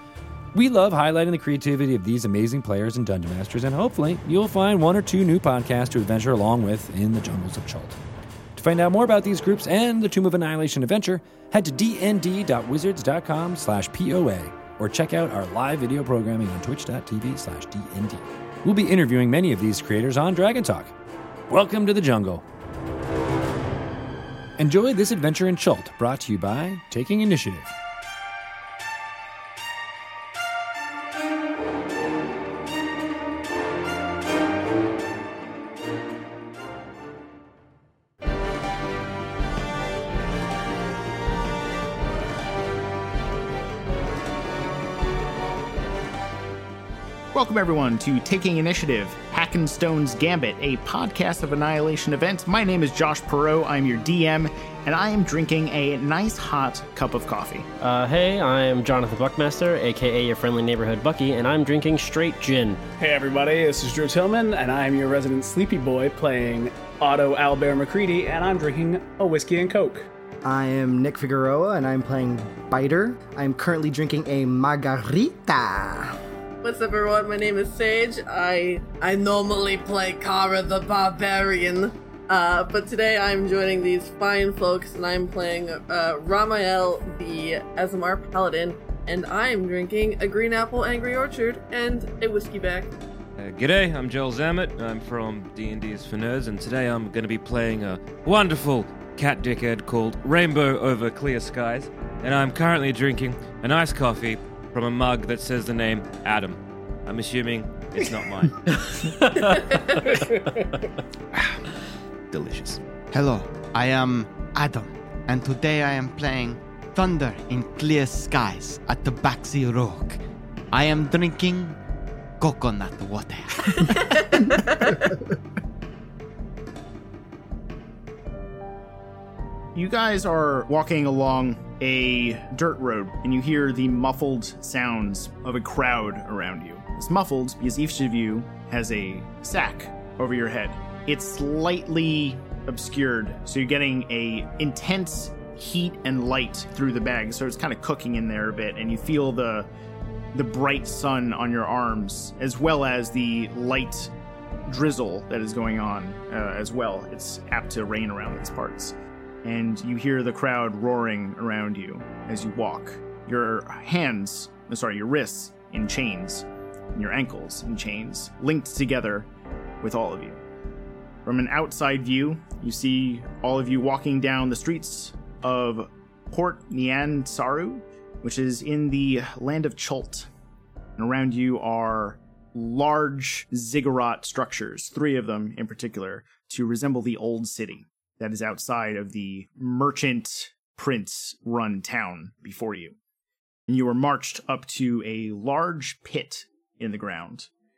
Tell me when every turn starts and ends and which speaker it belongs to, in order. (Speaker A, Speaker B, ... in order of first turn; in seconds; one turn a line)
Speaker A: 0.5-8.0
Speaker A: 8.6-20.9
Speaker A: 21.5-22.4
Speaker A: 24.6-27.7
Speaker B: 47.3-57.7
Speaker C: 57.8-62.8
Speaker D: 63.0-70.1
Speaker E: 70.5-76.2
Speaker F: 76.6-92.9
Speaker G: 93.4-108.9
Speaker F: 109.4-110.0
Speaker D: 110.1-110.7
Speaker G: 112.3-112.8
Speaker H: 113.1-120.2
Speaker H: 120.7-121.8
Speaker H: 122.4-123.9
Speaker F: 123.8-124.9
Speaker B: 129.8-149.7
Speaker B: 150.3-154.1
Speaker B: 154.7-169.3
Speaker B: 169.8-170.4
Speaker B: 171.2-180.3
Speaker B: 181.0-193.0
Speaker B: 193.7-197.5